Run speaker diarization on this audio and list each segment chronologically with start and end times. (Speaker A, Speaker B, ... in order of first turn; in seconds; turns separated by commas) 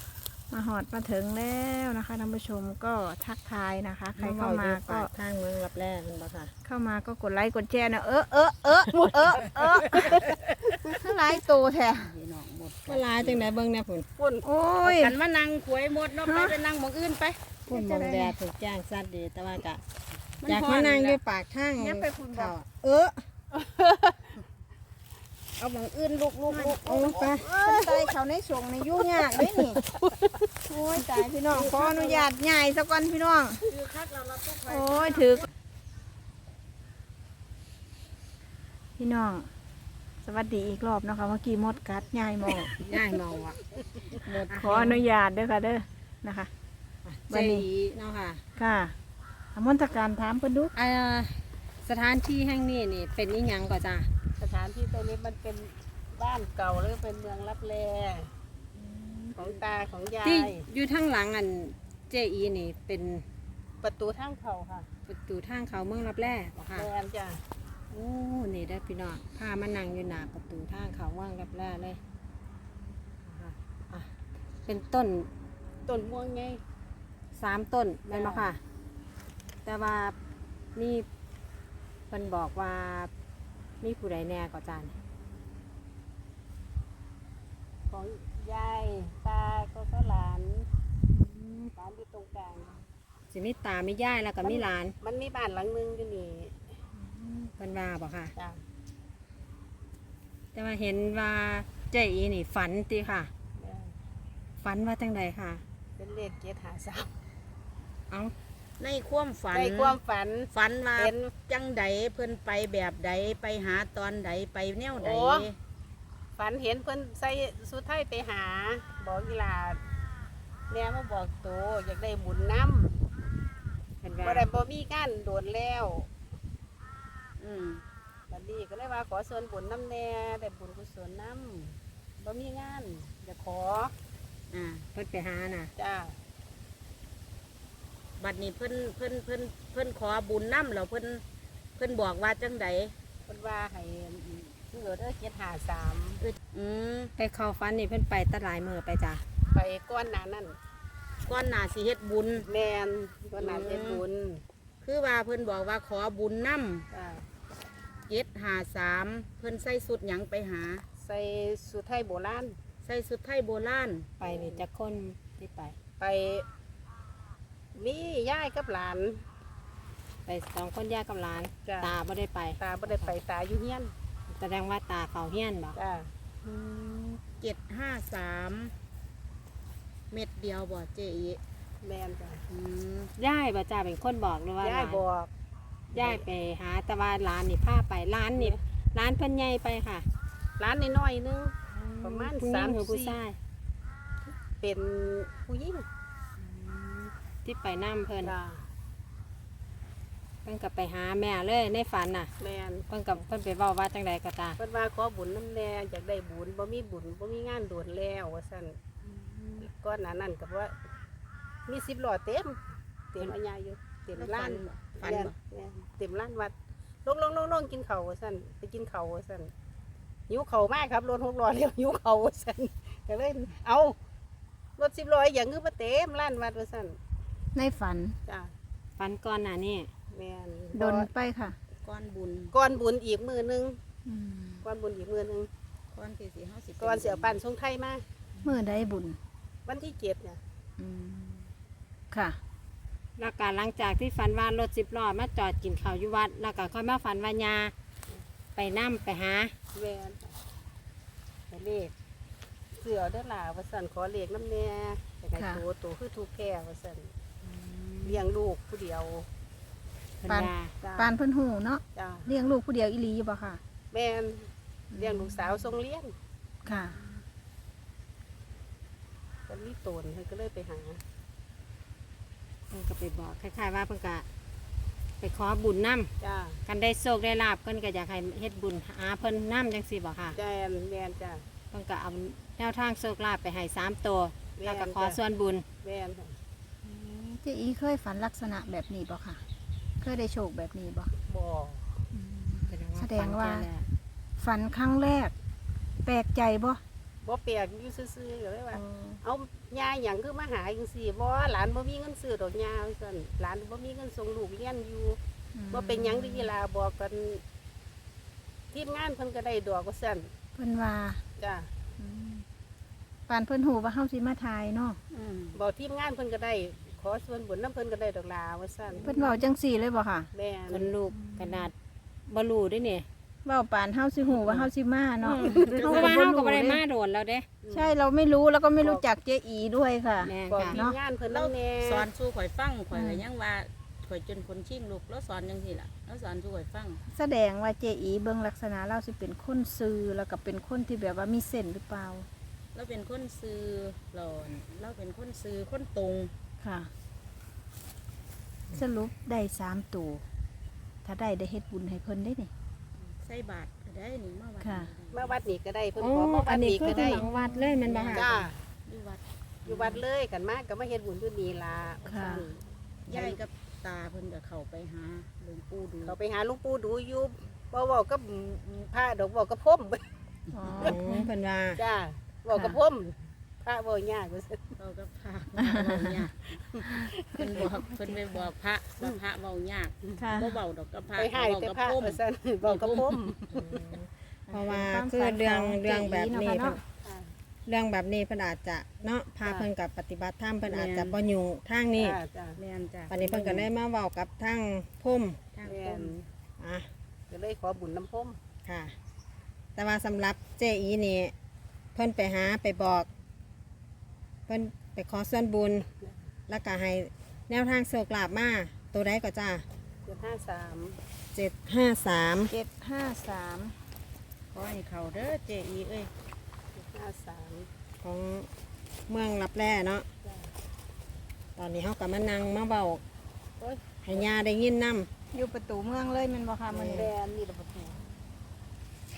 Speaker A: 0.5-5.1, Speaker B: 4.2-6.5, Speaker A: 6.6-12.1, Speaker C: 9.0-10.2, Speaker D: 9.9-10.3, Speaker D: 12.0-13.5, Speaker B: 12.8-14.1, Speaker C: 14.2-14.4, Speaker A: 14.4-15.1, Speaker D: 14.8-17.4, Speaker A: 16.2-16.6, Speaker B: 17.7-19.8, Speaker A: 17.7-18.4, Speaker D: 20.4-21.2, Speaker B: 20.4-23.2, Speaker A: 21.8-22.5, Speaker C: 23.5-24.3, Speaker D: 25.6-27.3, Speaker A: 26.5-26.8, Speaker B: 26.7-27.5, Speaker C: 27.4-28.1, Speaker A: 27.4-29.8, Speaker C: 29.0-30.4, Speaker A: 30.7-33.6, Speaker D: 31.5-31.9, Speaker B: 31.6-32.3, Speaker D: 33.6-35.5, Speaker A: 34.7-35.5, Speaker A: 39.0-39.5, Speaker A: 40.2-42.7, Speaker B: 42.7-43.6, Speaker A: 44.2-46.5, Speaker B: 44.5-45.0, Speaker B: 47.0-48.4, Speaker A: 47.3-47.7, Speaker A: 48.6-48.9, Speaker A: 49.5-50.7, Speaker B: 50.7-54.1, Speaker C: 54.4-58.3, Speaker C: 59.4-60.6, Speaker B: 60.2-63.2, Speaker C: 63.8-64.9, Speaker B: 65.1-66.9, Speaker C: 66.7-67.4, Speaker B: 67.9-72.0, Speaker B: 73.3-74.1, Speaker B: 74.7-75.3, Speaker C: 75.8-76.6, Speaker B: 77.3-78.6, Speaker C: 78.1-78.5, Speaker B: 79.6-80.2, Speaker B: 80.8-81.1, Speaker B: 82.1-83.1, Speaker B: 83.8-84.9, Speaker C: 87.9-90.7, Speaker B: 91.1-91.7, Speaker C: 91.8-92.8, Speaker B: 93.3-94.9, Speaker C: 94.4-96.8, Speaker B: 97.3-98.3, Speaker C: 98.3-98.6, Speaker B: 100.5-103.3, Speaker C: 103.6-103.9, Speaker B: 104.6-105.6, Speaker C: 106.0-107.1, Speaker D: 108.8-110.0, Speaker C: 109.5-111.3, Speaker D: 110.5-115.6, Speaker C: 115.0-115.5, Speaker C: 116.4-119.8, Speaker C: 120.7-123.0, Speaker B: 124.0-124.5, Speaker C: 124.2-126.1, Speaker D: 127.4-127.8, Speaker C: 128.3-133.9, Speaker D: 134.5-134.8, Speaker B: 134.9-135.7, Speaker C: 135.8-136.2, Speaker D: 138.2-141.2, Speaker D: 141.8-142.9, Speaker C: 143.3-146.2, Speaker D: 146.2-147.1, Speaker B: 147.2-149.2, Speaker C: 149.5-150.6, Speaker D: 151.2-152.4, Speaker C: 152.4-154.4, Speaker D: 153.4-154.0, Speaker D: 154.8-156.8, Speaker C: 156.9-157.2, Speaker D: 158.1-160.8, Speaker C: 161.0-162.6, Speaker D: 162.8-164.1, Speaker B: 164.2-165.8, Speaker C: 164.2-164.6, Speaker C: 166.0-166.4, Speaker C: 167.7-169.2, Speaker B: 170.2-173.1, Speaker C: 171.7-171.9, Speaker C: 172.6-173.9, Speaker B: 174.3-175.8, Speaker C: 175.7-177.0, Speaker D: 177.4-178.7, Speaker D: 180.1-181.4, Speaker C: 181.8-182.4, Speaker D: 182.5-183.1, Speaker B: 183.2-185.0, Speaker C: 184.6-185.3, Speaker B: 185.9-190.1, Speaker C: 185.9-186.2, Speaker C: 190.6-193.2, Speaker B: 191.7-193.4, Speaker C: 194.6-195.8, Speaker B: 196.4-198.3, Speaker C: 198.2-198.6, Speaker B: 200.4-202.3, Speaker C: 202.4-202.8, Speaker B: 202.9-204.6, Speaker C: 204.6-208.9, Speaker C: 209.6-210.8, Speaker C: 211.7-212.6, Speaker C: 213.1-216.5, Speaker D: 214.2-215.3, Speaker C: 217.0-219.5, Speaker C: 220.3-223.9, Speaker C: 224.8-227.0, Speaker A: 227.5-228.2, Speaker B: 229.0-229.9, Speaker C: 230.1-231.1, Speaker A: 230.7-231.6, Speaker D: 231.8-232.5, Speaker C: 232.5-233.8, Speaker A: 234.1-234.6, Speaker C: 234.6-235.5, Speaker D: 235.9-237.4, Speaker C: 236.8-238.0, Speaker A: 238.4-239.2, Speaker C: 239.7-240.4, Speaker A: 240.8-241.4, Speaker A: 242.1-242.4, Speaker B: 243.2-247.7, Speaker B: 248.5-249.5, Speaker C: 249.7-250.4, Speaker C: 251.5-251.9, Speaker C: 252.7-257.1, Speaker B: 257.4-258.2, Speaker C: 258.0-259.3, Speaker B: 260.2-260.7, Speaker A: 260.3-263.6, Speaker C: 260.7-261.1, Speaker C: 261.9-262.3, Speaker C: 263.9-266.1, Speaker A: 264.9-265.6, Speaker A: 266.6-266.9, Speaker C: 269.5-271.0, Speaker B: 272.7-274.2, Speaker B: 275.2-276.1, Speaker C: 276.2-276.6, Speaker B: 276.6-280.4, Speaker C: 280.3-281.4, Speaker B: 281.7-285.6, Speaker C: 284.6-285.2, Speaker C: 285.8-286.4, Speaker A: 287.2-289.4, Speaker A: 290.0-291.1, Speaker C: 291.3-292.0, Speaker A: 292.1-293.7, Speaker B: 292.7-293.9, Speaker A: 294.4-295.3, Speaker A: 296.0-296.8, Speaker C: 297.2-305.2, Speaker A: 305.5-306.5, Speaker C: 305.7-307.4, Speaker C: 308.7-310.3, Speaker A: 310.6-311.2, Speaker C: 311.4-311.7, Speaker A: 312.0-312.4, Speaker A: 313.3-315.0, Speaker D: 315.1-315.6, Speaker C: 315.5-319.4, Speaker A: 319.0-320.3, Speaker C: 320.3-320.9, Speaker B: 320.7-321.7, Speaker B: 322.3-323.1, Speaker A: 323.4-326.8, Speaker B: 324.3-324.7, Speaker B: 325.2-327.5, Speaker C: 325.3-326.1, Speaker D: 325.6-326.0, Speaker C: 327.6-327.9, Speaker A: 327.7-330.9, Speaker C: 328.8-329.1, Speaker B: 330.2-330.8, Speaker C: 330.4-332.1, Speaker D: 331.3-337.0, Speaker A: 332.9-333.2, Speaker A: 337.1-342.2, Speaker D: 342.7-346.3, Speaker A: 346.6-346.9, Speaker A: 348.7-350.2, Speaker A: 351.0-352.5, Speaker D: 353.0-355.4, Speaker A: 354.6-354.9, Speaker C: 355.1-357.2, Speaker B: 355.9-358.3, Speaker A: 356.9-357.7, Speaker D: 357.9-360.0, Speaker C: 358.1-358.5, Speaker C: 359.6-363.4, Speaker A: 362.0-362.5, Speaker D: 363.1-366.2, Speaker C: 366.0-370.1, Speaker A: 370.5-371.3, Speaker B: 370.7-371.8, Speaker C: 371.8-374.7, Speaker A: 372.5-372.8, Speaker D: 374.8-376.8, Speaker C: 376.7-377.1, Speaker A: 377.0-378.5, Speaker D: 377.3-383.4, Speaker A: 380.2-380.6, Speaker C: 381.1-383.8, Speaker B: 383.6-386.8, Speaker A: 384.5-386.8, Speaker C: 387.0-387.3, Speaker B: 387.6-392.2, Speaker D: 390.6-391.2, Speaker C: 392.0-392.6, Speaker D: 392.6-393.5, Speaker B: 393.1-395.4, Speaker D: 395.5-396.1, Speaker C: 395.6-396.3, Speaker B: 396.6-396.9, Speaker C: 397.3-398.4, Speaker B: 398.6-398.9, Speaker B: 399.8-401.3, Speaker B: 401.9-403.1, Speaker B: 404.5-405.9, Speaker B: 406.5-409.6, Speaker C: 410.0-411.0, Speaker B: 411.3-412.5, Speaker A: 412.5-413.8, Speaker D: 414.5-416.1, Speaker C: 416.7-417.7, Speaker B: 418.0-418.5, Speaker B: 419.1-420.1, Speaker C: 420.2-420.5, Speaker B: 421.6-423.0, Speaker C: 423.6-424.3, Speaker B: 424.0-425.1, Speaker A: 425.3-427.1, Speaker B: 426.7-427.1, Speaker C: 426.9-428.0